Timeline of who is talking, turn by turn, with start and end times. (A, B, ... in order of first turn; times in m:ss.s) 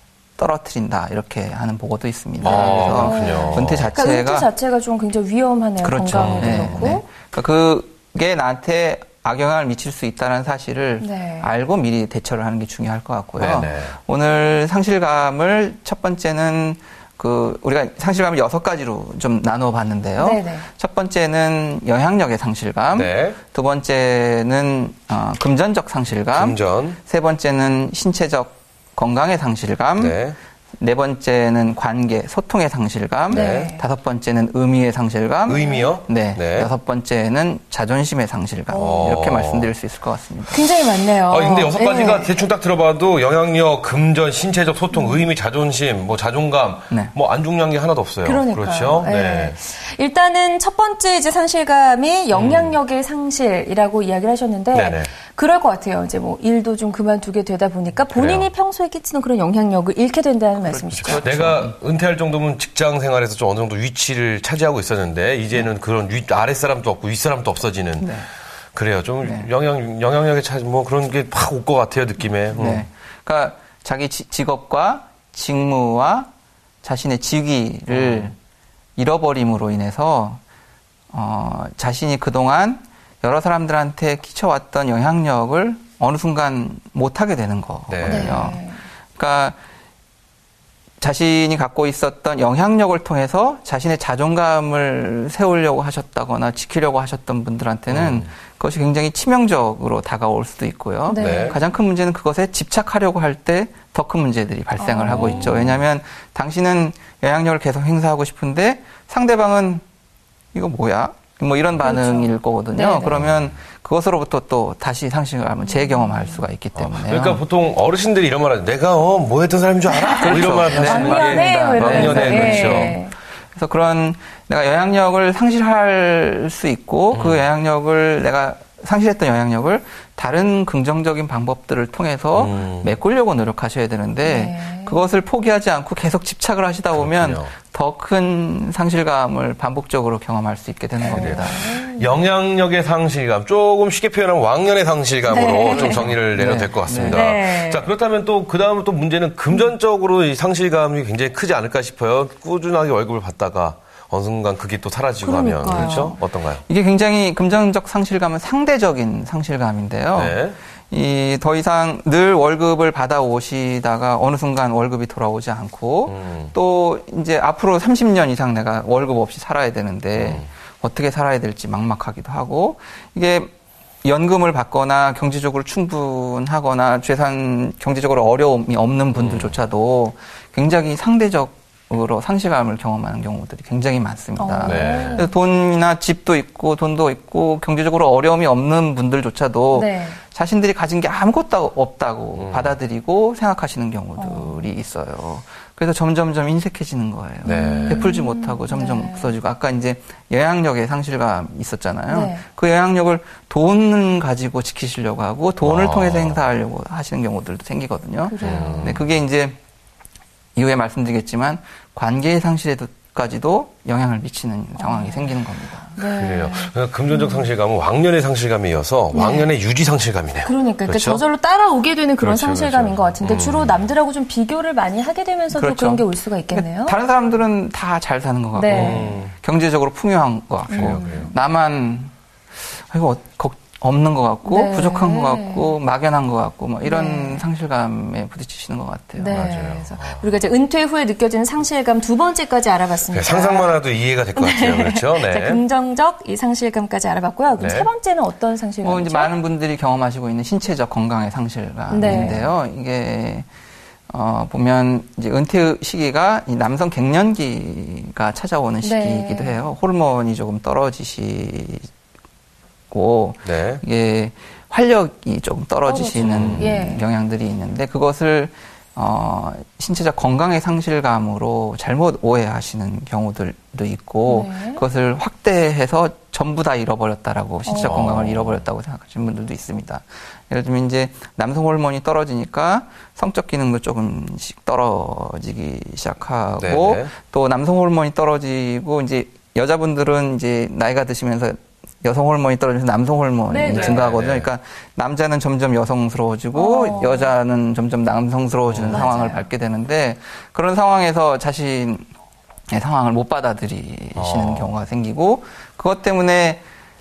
0:00.4-0:04.5 A
0:02.4-0:04.0 B
0:02.4-0:07.0 C
0:05.8-0:30.2 A
0:06.1-0:07.0 B
0:11.0-0:11.5 C
0:13.4-0:14.0 B
0:20.2-0:20.7 C
0:23.0-0:23.4 B
0:26.3-0:27.0 B
0:30.0-0:30.4 B
0:30.8-0:40.6 A
0:33.3-0:33.8 C
0:33.3-0:33.7 B
0:35.5-0:35.9 C
0:35.5-0:36.7 B
0:38.7-0:39.2 C
0:38.8-0:39.7 B
0:40.5-0:42.3 C
0:41.2-0:49.6 B
0:44.9-0:45.2 C
0:48.2-1:01.4 C
0:52.3-0:52.8 B
0:54.7-0:55.1 B
0:58.2-0:58.5 B
1:00.6-1:01.8 A
1:01.0-1:08.2 B
1:08.0-1:08.3 A
1:08.8-1:12.8 B
1:12.6-1:16.3 A
1:16.8-1:18.4 A
1:17.9-1:18.3 B
1:19.0-1:20.4 A
1:21.1-1:28.6 A
1:27.9-1:28.5 B
1:28.0-1:28.8 C
1:29.2-1:29.6 A
1:31.0-1:49.8 A
1:37.9-1:38.3 B
1:41.1-1:41.6 C
1:41.2-1:41.6 B
1:44.8-1:45.6 C
1:45.1-1:45.8 B
1:50.5-1:57.4 A
1:51.8-1:53.2 C
1:53.1-1:53.5 B
1:55.6-1:56.4 C
1:56.8-2:03.0 B
1:59.9-2:03.1 C
2:00.2-2:03.0 A
2:03.6-2:21.7 A
2:07.1-2:07.5 B
2:12.4-2:12.9 B
2:14.2-2:15.1 C
2:17.0-2:17.5 B
2:21.0-2:22.2 C
2:21.1-2:36.6 B
2:25.3-2:26.2 C
2:25.7-2:27.2 A
2:27.1-2:27.9 C
2:35.2-2:36.2 C
2:35.7-2:53.5 A
2:40.2-2:40.6 B
2:46.1-2:46.5 B
2:50.2-2:50.5 B
2:54.0-3:29.6 A
2:59.2-2:59.6 B
3:04.4-3:05.3 C
3:04.6-3:05.3 B
3:09.7-3:10.2 C
3:12.4-3:12.8 B
3:14.2-3:14.6 C
3:17.4-3:19.3 C
3:17.4-3:18.1 B
3:22.1-3:22.4 C
3:25.6-3:26.4 B
3:28.2-3:29.0 C
3:28.4-3:29.1 B
3:30.6-3:36.0 A
3:34.8-3:35.4 C
3:36.0-3:37.5 C
3:36.0-3:41.2 B
3:39.1-3:39.5 C
3:40.5-3:47.0 C
3:42.2-3:43.9 B
3:45.5-3:59.4 A
3:48.5-3:49.1 C
3:48.7-3:49.3 B
3:50.7-3:51.4 C
3:50.7-3:51.3 B
3:54.5-3:55.7 C
3:56.8-3:57.5 C
3:59.2-4:03.7 C
3:59.3-4:00.3 B
4:03.1-4:05.6 B
4:04.4-4:09.3 C
4:07.6-4:07.9 B
4:08.8-4:13.5 A
4:11.9-4:12.5 C
4:12.0-4:12.3 B
4:14.1-4:21.9 A
4:18.8-4:19.6 C
4:22.9-5:02.1 A
4:23.4-4:23.8 B
4:25.8-4:27.0 C
4:26.2-4:26.7 B
4:34.3-4:34.8 C
4:37.6-4:38.2 C
4:37.8-4:38.6 B
4:46.6-4:47.1 B
4:53.5-4:54.1 C
4:53.7-4:54.5 B
4:56.5-4:57.3 C
4:58.7-4:59.1 B
4:58.9-4:59.4 C
5:02.7-5:06.6 A
5:04.2-5:04.7 B